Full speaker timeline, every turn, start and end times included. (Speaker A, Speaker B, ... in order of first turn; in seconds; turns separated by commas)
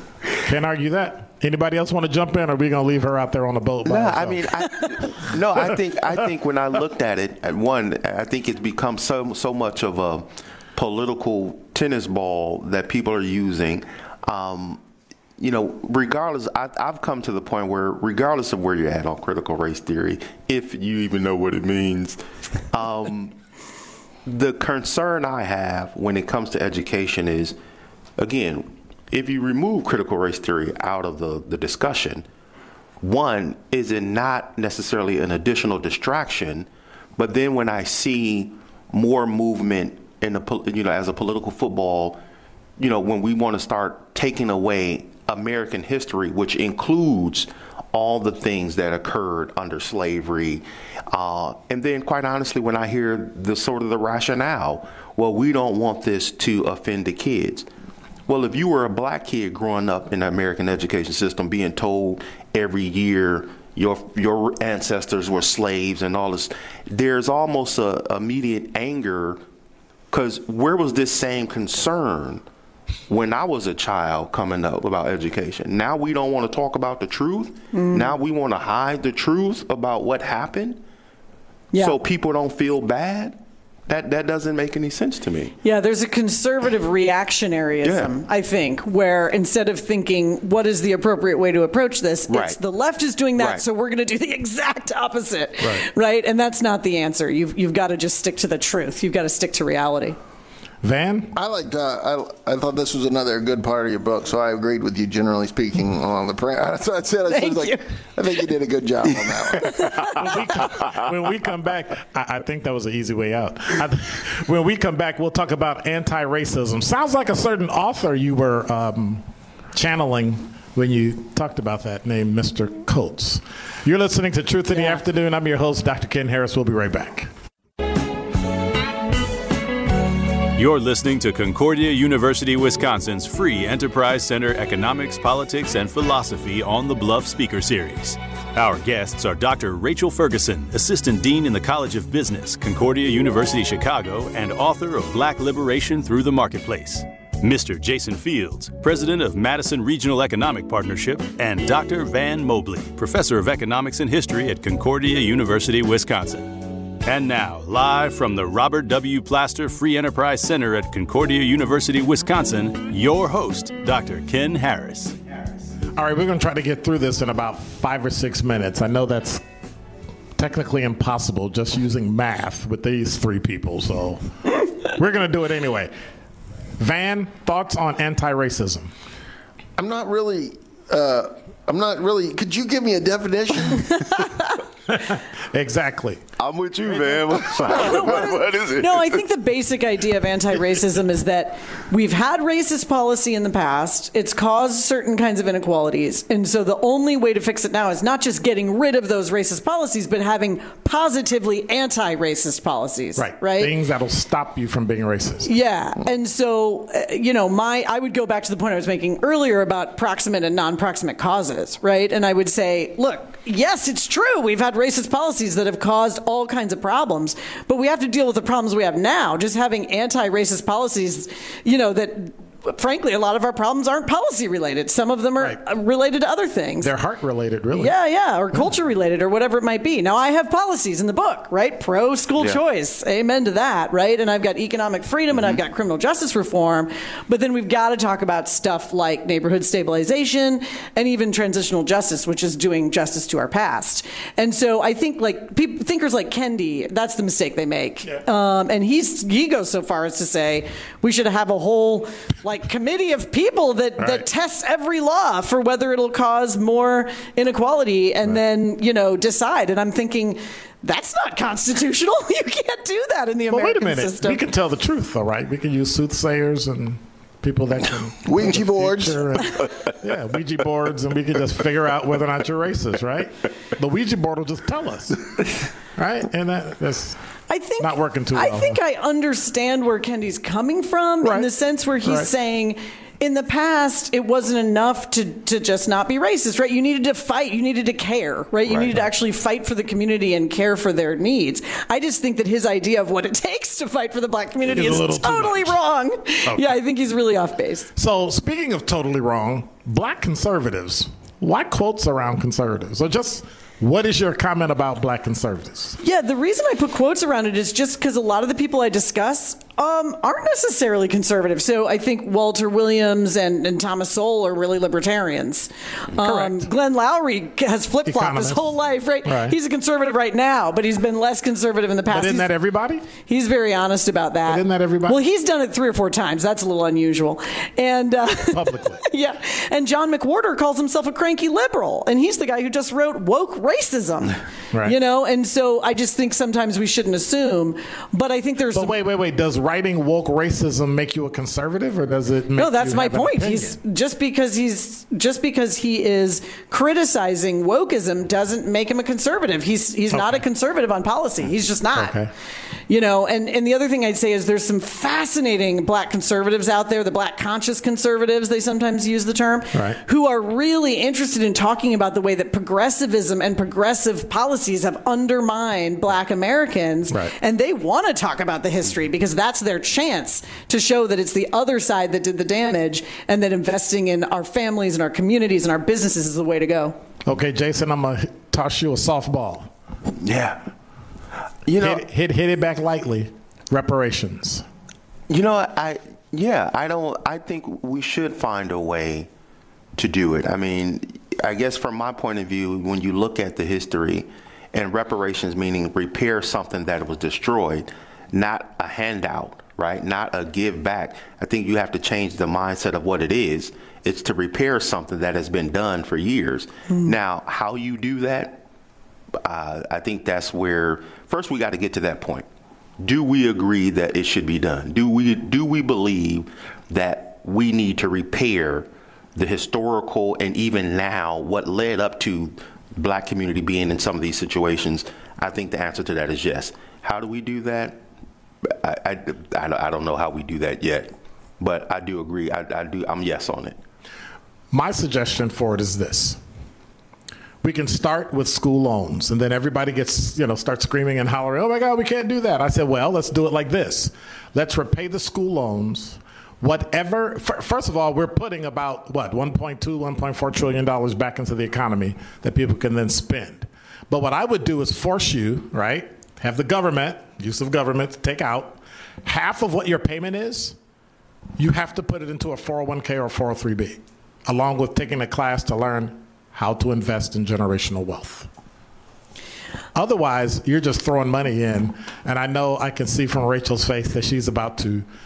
Speaker A: 0.4-5.0, Speaker B: 3.8-14.8, Speaker B: 15.4-23.3, Speaker B: 24.2-27.6, Speaker B: 28.2-32.2, Speaker B: 33.0-42.2, Speaker B: 42.8-57.7, Speaker B: 58.3-69.4, Speaker B: 70.1-72.4, Speaker B: 73.1-80.8, Speaker C: 77.7-78.2, Speaker B: 81.8-85.5, Speaker C: 85.6-100.2, Speaker B: 87.8-88.1, Speaker B: 92.3-92.6, Speaker B: 93.4-93.6, Speaker A: 100.8-101.3, Speaker D: 101.3-109.9, Speaker C: 107.3-107.8, Speaker C: 109.6-110.3, Speaker A: 110.1-127.3, Speaker E: 130.5-165.2, Speaker A: 165.9-169.4, Speaker A: 170.3-175.9, Speaker A: 176.8-178.9, Speaker D: 179.8-184.2, Speaker A: 184.9-186.2, Speaker B: 186.4-189.2, Speaker C: 187.5-203.7, Speaker A: 203.2-205.5, Speaker C: 205.4-226.9, Speaker A: 226.8-227.9, Speaker C: 227.7-264.4, Speaker A: 254.0-254.2, Speaker A: 263.5-277.2, Speaker D: 268.2-269.4, Speaker C: 277.5-297.9, Speaker A: 277.8-278.8, Speaker A: 281.2-281.5, Speaker A: 282.0-282.3, Speaker A: 294.7-295.8, Speaker A: 296.5-296.8, Speaker A: 297.9-306.0, Speaker C: 306.0-322.5, Speaker A: 316.2-316.7, Speaker A: 318.1-318.7, Speaker A: 319.2-319.6, Speaker A: 322.1-323.1, Speaker C: 323.2-339.0, Speaker A: 324.5-325.2, Speaker A: 328.5-329.0, Speaker A: 338.7-343.8, Speaker C: 342.5-352.2, Speaker A: 350.1-350.4, Speaker A: 351.9-352.3, Speaker C: 352.9-376.9, Speaker A: 359.7-360.0, Speaker A: 377.2-379.7, Speaker B: 380.2-380.6, Speaker B: 381.6-382.0, Speaker A: 381.8-384.6, Speaker B: 385.3-389.3, Speaker B: 389.9-408.6, Speaker B: 409.4-412.5, Speaker B: 413.0-428.0, Speaker B: 428.6-433.8, Speaker A: 434.7-436.4, Speaker A: 437.6-460.8, Speaker A: 461.6-468.5, Speaker A: 469.9-475.1